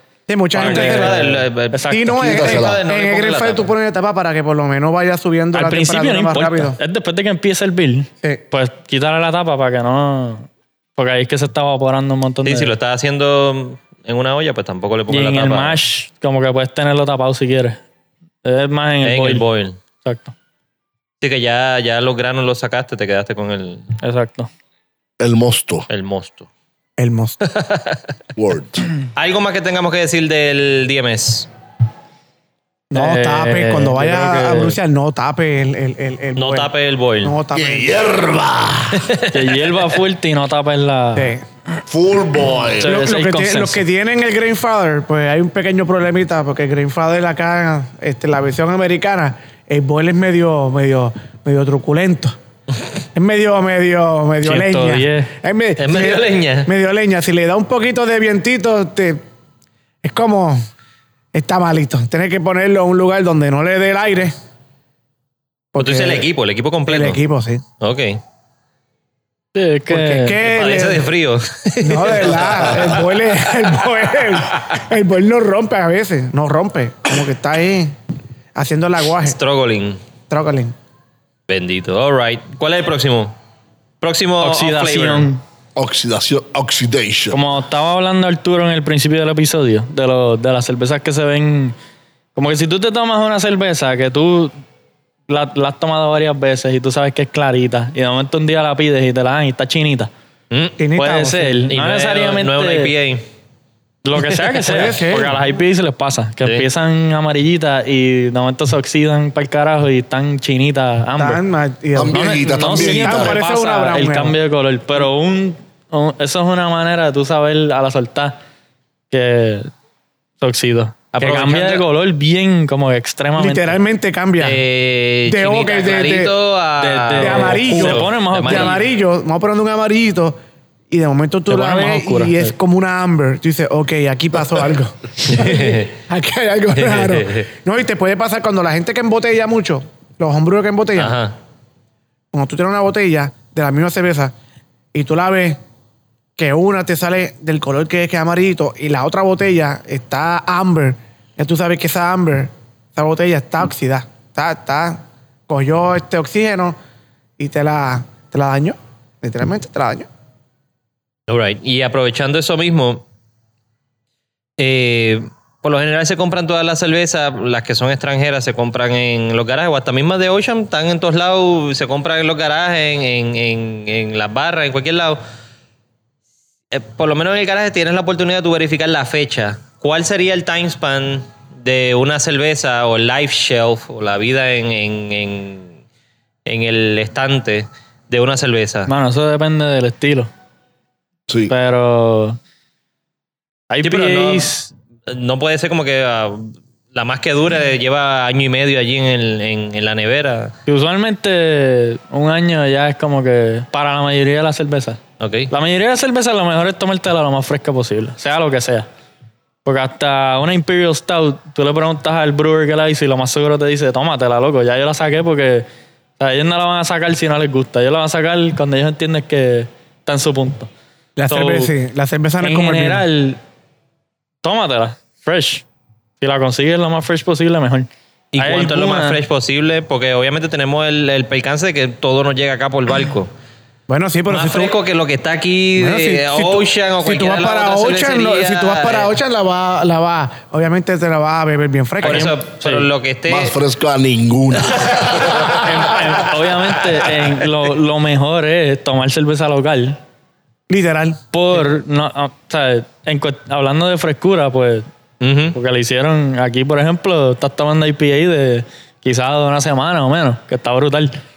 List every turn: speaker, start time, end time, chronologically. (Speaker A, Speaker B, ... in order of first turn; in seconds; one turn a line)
Speaker A: 0.3-1.3
Speaker B: 0.5-2.2
Speaker C: 0.5-3.7
Speaker A: 1.9-6.8
Speaker D: 2.2-2.8
Speaker B: 5.5-12.7
Speaker C: 12.4-15.8
Speaker B: 15.1-17.8
Speaker B: 18.4-19.4
Speaker C: 19.0-19.8
Speaker B: 20.0-20.3
Speaker C: 21.2-23.9
Speaker B: 24.0-24.5
Speaker D: 25.2-25.9
Speaker C: 25.9-26.5
Speaker A: 27.0-27.4
Speaker C: 27.4-28.0
Speaker D: 28.4-28.9
Speaker C: 29.1-31.5
Speaker A: 32.9-36.7
Speaker B: 32.9-34.8
Speaker C: 36.4-37.4
Speaker A: 37.2-37.9
Speaker D: 37.5-39.1
Speaker C: 38.9-39.4
Speaker B: 39.3-41.4
Speaker A: 41.1-41.4
Speaker D: 41.9-43.1
Speaker B: 42.8-43.8
Speaker A: 42.8-52.4
Speaker A: 53.1-59.2
Speaker B: 54.4-55.3
Speaker C: 55.8-56.7
Speaker A: 60.0-60.6
Speaker A: 61.3-64.3
Speaker A: 65.7-66.2
Speaker C: 65.8-67.2
Speaker A: 66.9-67.6
Speaker C: 67.8-68.2
Speaker B: 69.5-70.4
Speaker A: 69.9-71.0
Speaker C: 70.4-73.3
Speaker A: 71.8-77.9
Speaker A: 78.5-79.3
Speaker C: 79.2-80.0
Speaker A: 80.3-80.7
Speaker C: 81.5-83.3
Speaker C: 84.0-85.3
Speaker B: 84.4-85.4
Speaker D: 85.8-87.4
Speaker B: 87.3-91.7
Speaker B: 92.3-94.5
Speaker B: 95.3-100.1
Speaker C: 100.5-100.8
Speaker A: 100.8-101.6
Speaker B: 101.0-102.9
Speaker C: 101.7-103.2
Speaker B: 104.0-111.4
Speaker A: 104.6-105.3
Speaker A: 111.2-114.3
Speaker D: 111.9-113.4
Speaker B: 112.1-118.4
Speaker B: 119.1-119.7
Speaker B: 120.4-123.8
Speaker C: 121.1-121.8
Speaker A: 123.4-124.6
Speaker C: 124.4-128.8
Speaker A: 125.3-126.3
Speaker B: 126.8-128.8
Speaker A: 127.2-130.3
Speaker A: 130.9-141.2
Speaker B: 131.5-132.5
Speaker C: 135.2-136.0
Speaker C: 136.7-137.5
Speaker C: 140.9-141.3
Speaker A: 142.3-144.3
Speaker A: 144.9-145.6
Speaker A: 146.4-156.8
Speaker A: 157.4-160.1
Speaker C: 161.3-163.0
Speaker C: 164.6-175.2
Speaker C: 176.7-185.7
Speaker C: 186.4-188.9
Speaker B: 188.9-190.3
Speaker D: 191.3-191.5
Speaker B: 191.5-192.4
Speaker B: 193.7-194.7
Speaker C: 193.8-194.5
Speaker C: 195.1-200.5
Speaker B: 200.7-208.9
Speaker C: 205.2-205.5
Speaker B: 209.6-215.7
Speaker B: 216.2-220.7
Speaker A: 221.2-223.0
Speaker B: 221.3-221.7
Speaker B: 222.4-223.4
Speaker B: 224.4-225.6
Speaker B: 226.2-227.9
Speaker C: 228.3-233.3
Speaker B: 228.4-229.2
Speaker A: 233.9-234.7
Speaker C: 234.3-239.1
Speaker A: 235.8-242.3
Speaker C: 242.0-243.5
Speaker B: 242.0-242.8
Speaker D: 243.3-246.1
Speaker C: 244.7-245.7
Speaker B: 245.6-250.0
Speaker A: 250.7-251.2
Speaker B: 251.3-254.8
Speaker C: 255.2-255.6
Speaker B: 255.5-261.2